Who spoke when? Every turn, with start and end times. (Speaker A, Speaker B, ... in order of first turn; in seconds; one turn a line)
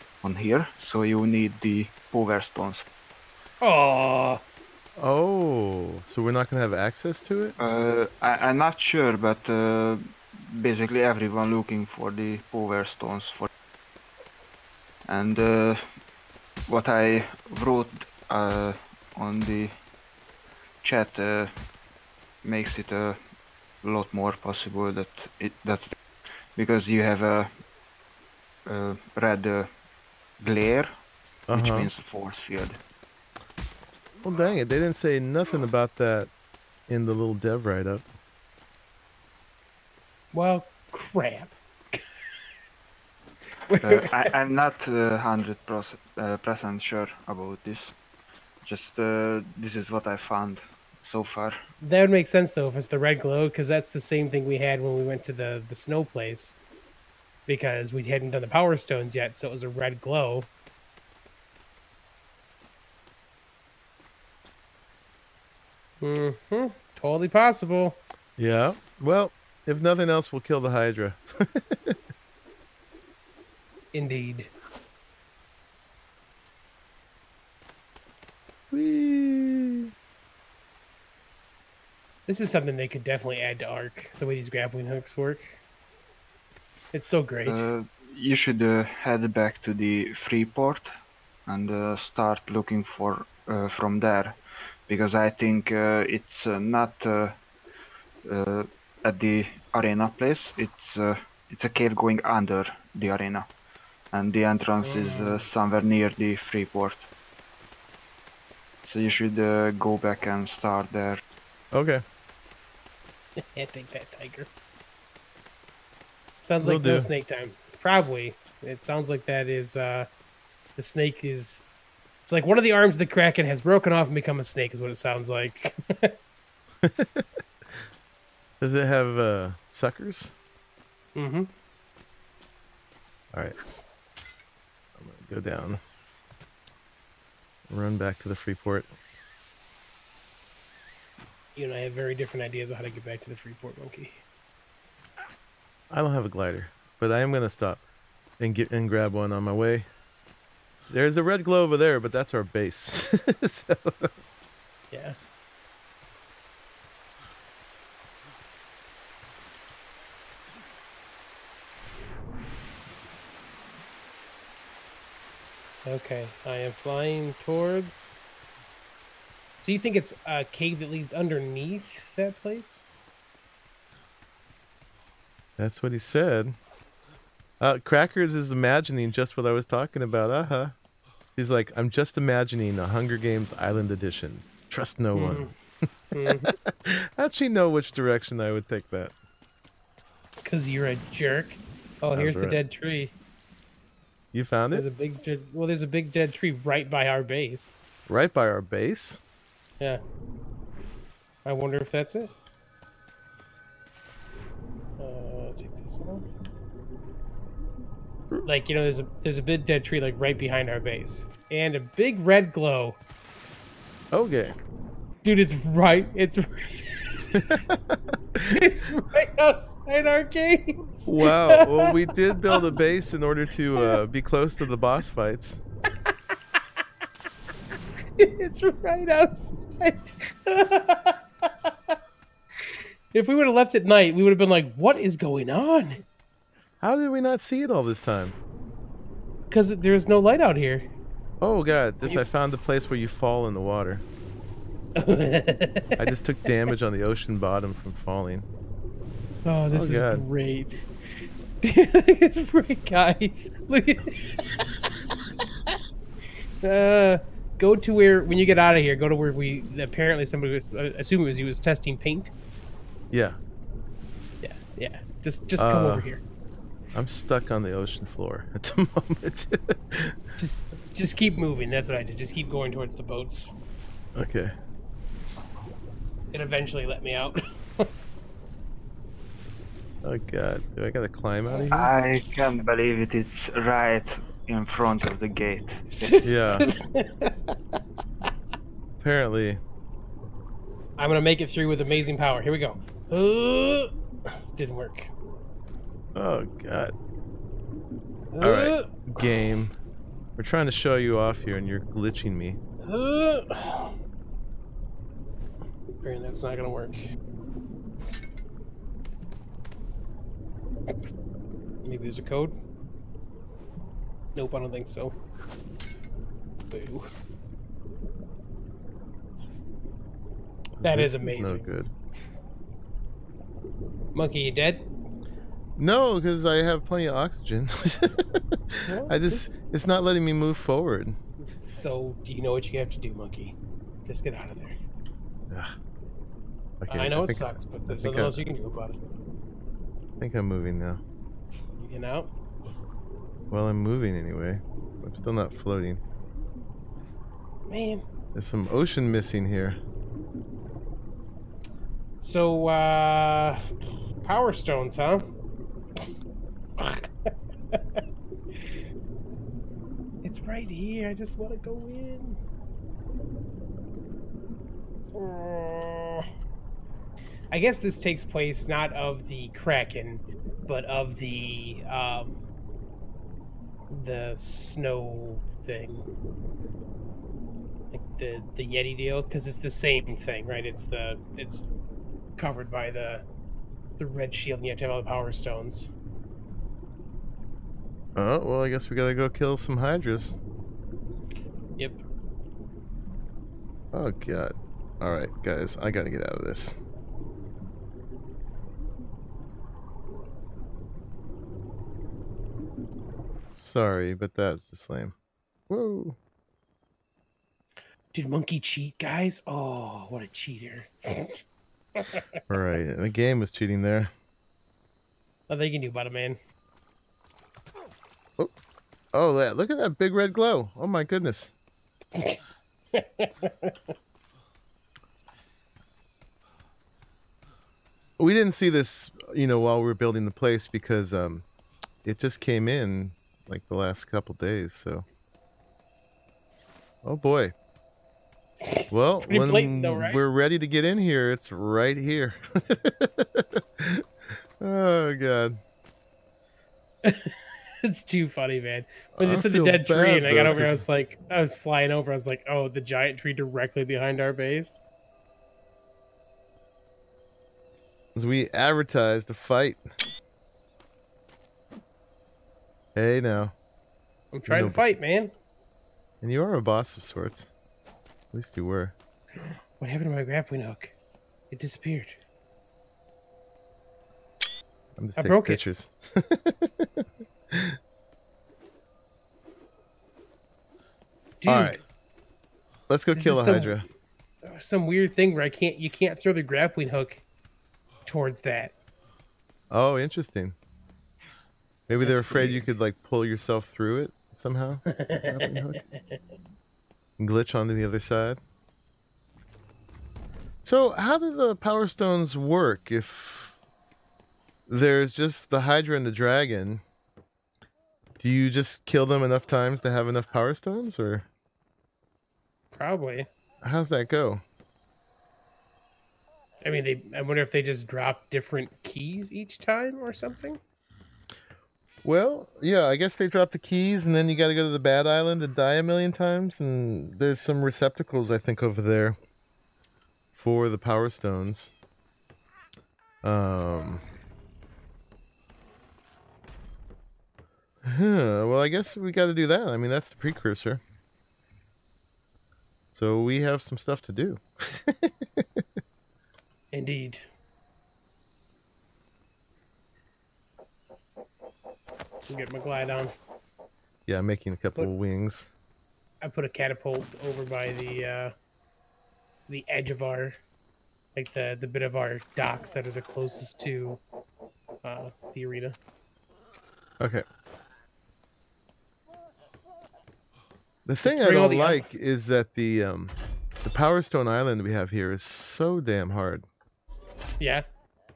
Speaker A: 0.2-2.9
Speaker B: 3.6-4.4
Speaker C: 5.0-7.5
Speaker A: 7.6-13.5
Speaker A: 15.1-15.8
Speaker A: 16.7-19.7
Speaker A: 20.8-21.5
Speaker A: 22.4-23.2
Speaker A: 23.8-25.9
Speaker A: 26.6-27.5
Speaker A: 28.7-29.7
Speaker A: 30.4-30.9
Speaker C: 31.5-31.9
Speaker A: 31.5-32.8
Speaker C: 34.2-36.3
Speaker C: 36.9-38.0
Speaker B: 40.3-42.4
Speaker B: 43.7-44.3
Speaker A: 43.8-48.0
Speaker A: 48.6-51.5
Speaker B: 51.8-56.6
Speaker B: 57.5-60.5
Speaker B: 66.0-68.0
Speaker C: 68.4-72.0
Speaker B: 73.9-74.5
Speaker C: 78.7-79.9
Speaker B: 82.3-85.6
Speaker B: 86.9-87.7
Speaker A: 87.5-90.9
Speaker A: 91.5-94.3
Speaker A: 94.9-97.4
Speaker A: 98.3-103.5
Speaker A: 104.1-107.1
Speaker B: 104.8-105.5
Speaker A: 108.8-111.2
Speaker C: 111.7-112.0
Speaker B: 113.4-114.5
Speaker B: 116.4-120.1
Speaker C: 116.6-117.1
Speaker B: 120.8-121.7
Speaker B: 122.2-126.1
Speaker C: 126.8-127.3
Speaker C: 128.6-130.3
Speaker B: 131.2-131.5
Speaker C: 135.0-135.8
Speaker C: 137.7-138.9
Speaker B: 141.6-144.2
Speaker C: 145.9-147.8
Speaker C: 148.4-149.9
Speaker C: 150.9-154.1
Speaker B: 154.9-155.2
Speaker B: 165.8-168.2
Speaker B: 169.6-172.9
Speaker C: 175.6-176.6
Speaker C: 177.6-180.8
Speaker C: 181.4-185.5
Speaker B: 185.2-185.5
Speaker B: 186.1-186.5
Speaker C: 186.4-189.1
Speaker B: 190.4-193.2
Speaker C: 192.2-192.6
Speaker C: 194.3-194.8
Speaker B: 194.7-197.7
Speaker C: 198.1-199.2
Speaker B: 201.4-202.3
Speaker B: 205.0-206.3
Speaker B: 208.5-213.0
Speaker C: 214.1-214.6
Speaker B: 215.2-217.5
Speaker C: 217.4-218.5
Speaker B: 218.4-221.9
Speaker C: 221.1-225.6
Speaker B: 226.0-226.8
Speaker B: 228.2-232.0
Speaker B: 232.6-236.0
Speaker C: 236.8-238.4
Speaker B: 239.5-240.9
Speaker C: 241.4-244.0
Speaker B: 245.0-246.1
Speaker C: 246.0-248.5
Speaker B: 249.4-250.9
Speaker C: 249.7-250.2
Speaker B: 251.6-255.8
Speaker B: 256.6-262.3
Speaker C: 263.1-263.4
Speaker B: 264.4-266.2
Speaker C: 265.6-266.1
Speaker C: 266.9-270.2
Speaker B: 270.4-273.5
Speaker C: 274.2-274.5
Speaker B: 276.3-277.9
Speaker C: 280.0-281.9
Speaker A: 281.7-286.3
Speaker B: 286.0-288.3
Speaker C: 286.2-286.7
Speaker C: 289.0-289.6
Speaker B: 291.0-295.1
Speaker C: 296.1-296.9
Speaker B: 298.3-299.0
Speaker C: 298.4-299.7
Speaker C: 300.4-302.6
Speaker B: 302.9-304.0
Speaker B: 306.0-307.0
Speaker B: 311.8-312.6
Speaker B: 314.4-315.2
Speaker B: 316.7-317.1
Speaker C: 320.8-321.9
Speaker B: 320.8-321.7
Speaker B: 324.1-324.9
Speaker C: 325.8-331.2
Speaker B: 328.9-329.5
Speaker B: 331.5-334.8
Speaker C: 336.8-338.4
Speaker B: 336.9-339.0
Speaker C: 340.2-341.0
Speaker B: 341.8-342.3
Speaker C: 343.5-346.0
Speaker B: 347.7-348.1
Speaker C: 348.4-349.8
Speaker B: 352.2-353.6
Speaker B: 354.2-355.3
Speaker B: 356.8-358.0
Speaker B: 360.2-362.4
Speaker B: 365.1-366.3
Speaker B: 367.5-372.4
Speaker B: 373.9-376.1
Speaker B: 377.9-381.7
Speaker B: 382.4-383.2
Speaker B: 384.0-385.9
Speaker C: 388.2-390.4
Speaker C: 393.9-396.8
Speaker C: 403.5-405.1
Speaker C: 405.7-406.2
Speaker B: 408.1-411.4
Speaker B: 412.0-412.3
Speaker C: 412.5-414.1
Speaker B: 415.5-416.4
Speaker C: 419.1-421.5
Speaker B: 422.9-423.9
Speaker C: 428.2-431.5
Speaker C: 432.0-435.1
Speaker C: 437.0-437.5
Speaker B: 438.6-440.2
Speaker C: 438.9-445.6
Speaker B: 447.0-454.8
Speaker C: 449.1-450.8
Speaker C: 458.1-459.8
Speaker C: 462.9-463.6
Speaker B: 464.3-465.3
Speaker C: 464.5-464.8
Speaker C: 466.2-467.5
Speaker C: 468.3-468.9
Speaker B: 469.4-470.9
Speaker B: 471.5-472.2
Speaker C: 475.0-477.8
Speaker B: 475.2-475.6
Speaker B: 481.4-481.8
Speaker C: 481.5-481.8
Speaker C: 482.9-483.9
Speaker B: 483.1-483.8
Speaker B: 484.4-487.2
Speaker B: 488.1-488.8
Speaker C: 489.7-490.6
Speaker C: 491.9-495.8
Speaker B: 492.0-492.7
Speaker B: 494.9-496.2
Speaker C: 497.2-498.4
Speaker C: 500.6-503.6
Speaker C: 504.7-506.8
Speaker C: 508.2-511.3
Speaker B: 512.7-513.3
Speaker C: 513.6-514.4
Speaker B: 516.6-520.6
Speaker C: 522.0-529.2
Speaker C: 530.4-531.7
Speaker C: 533.2-534.0
Speaker C: 537.9-540.8
Speaker C: 542.9-545.6
Speaker B: 546.7-547.2
Speaker B: 552.3-553.1
Speaker C: 554.1-555.5
Speaker B: 556.2-558.3
Speaker B: 559.5-560.4
Speaker B: 561.1-564.0
Speaker B: 564.8-565.8
Speaker C: 570.9-576.5
Speaker B: 571.0-571.9